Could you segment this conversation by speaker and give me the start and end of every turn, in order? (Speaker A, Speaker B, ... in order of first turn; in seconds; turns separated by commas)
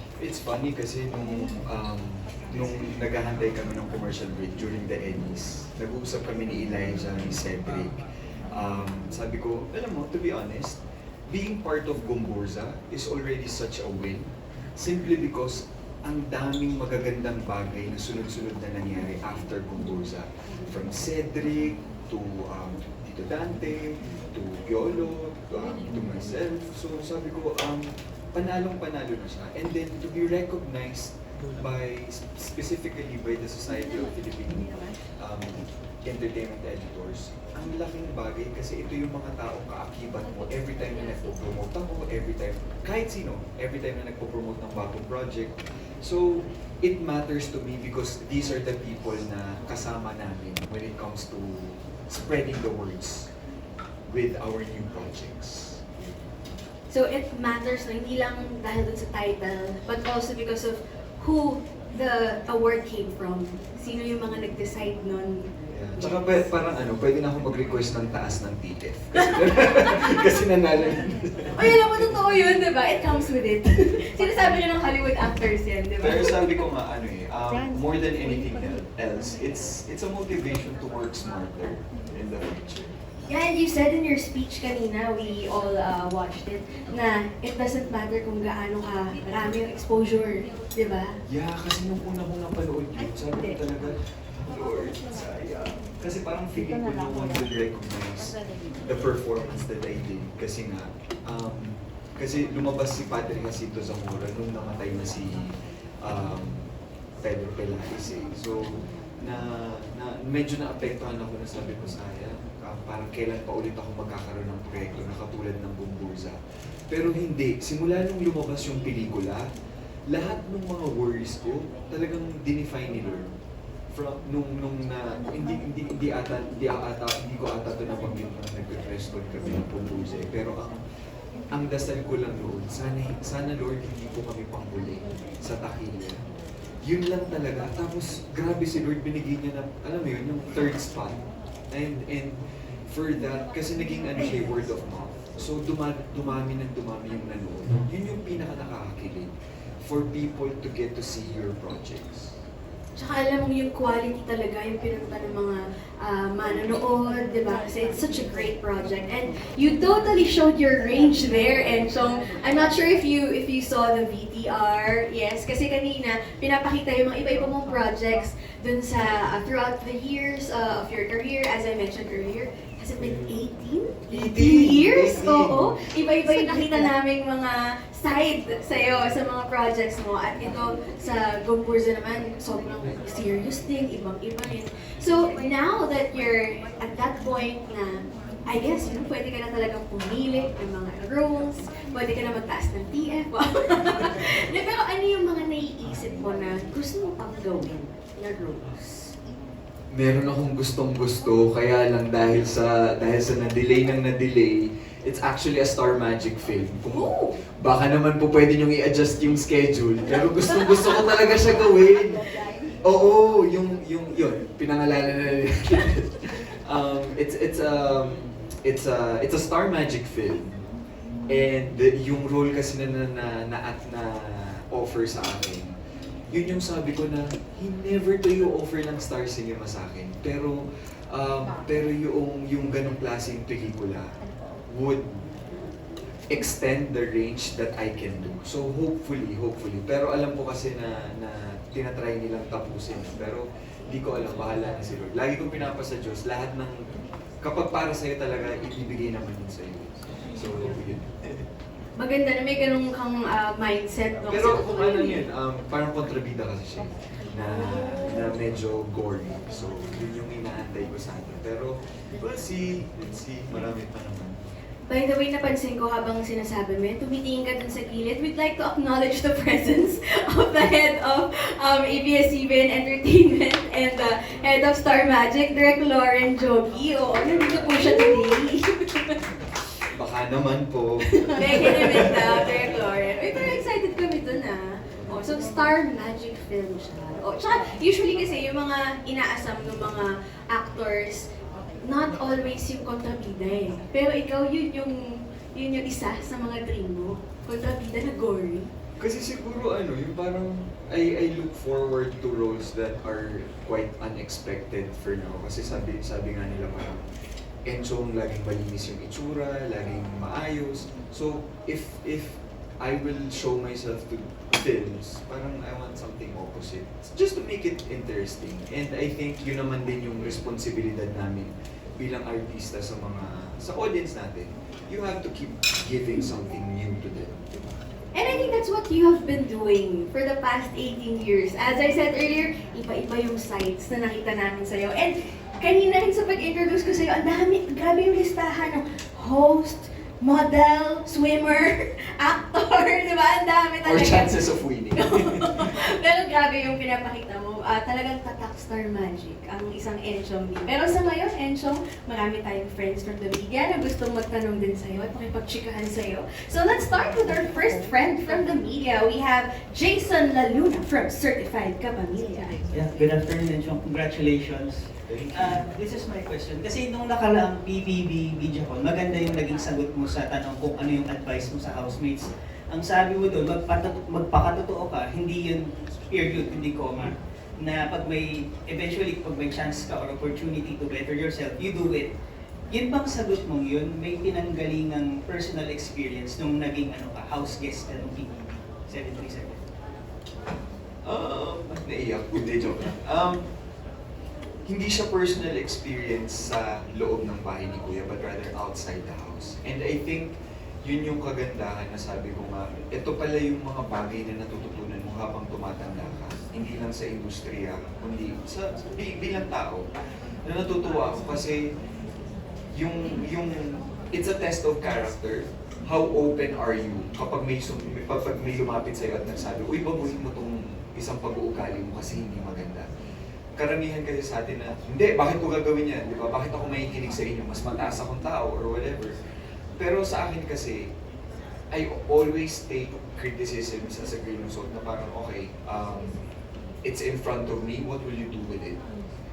Speaker A: 0.2-53.3, Speaker A: 54.1-55.9, Speaker B: 56.9-66.3, Speaker A: 65.7-72.0, Speaker B: 69.2-70.0, Speaker B: 71.6-76.6, Speaker A: 76.0-82.9, Speaker B: 83.3-91.2, Speaker A: 91.3-105.5, Speaker A: 106.0-106.7, Speaker A: 107.2-116.4, Speaker A: 116.9-119.5, Speaker A: 120.1-123.3, Speaker A: 123.9-130.8, Speaker A: 131.5-136.2, Speaker A: 136.8-141.2, Speaker A: 141.7-152.3, Speaker B: 153.0-199.1, Speaker A: 174.1-175.6, Speaker A: 199.9-212.2, Speaker B: 206.9-207.4, Speaker B: 210.5-211.1, Speaker A: 212.8-220.6, Speaker A: 221.3-225.7, Speaker A: 226.3-230.6, Speaker A: 231.1-234.1, Speaker A: 234.7-235.2, Speaker A: 236.3-246.8, Speaker A: 247.4-251.1, Speaker B: 252.0-255.2, Speaker A: 254.3-264.4, Speaker B: 264.9-279.2, Speaker A: 277.4-278.3, Speaker A: 279.9-282.6, Speaker B: 281.1-291.3, Speaker B: 291.9-298.7, Speaker A: 299.0-307.0, Speaker A: 307.7-327.3, Speaker B: 328.1-362.6, Speaker A: 343.8-345.7, Speaker C: 362.7-382.1, Speaker A: 365.1-365.6, Speaker C: 382.7-389.6, Speaker A: 391.1-393.5, Speaker A: 394.7-409.8, Speaker A: 410.4-411.7, Speaker A: 412.8-422.9, Speaker A: 423.6-429.2, Speaker A: 429.8-430.9, Speaker A: 431.7-436.2, Speaker A: 436.9-438.8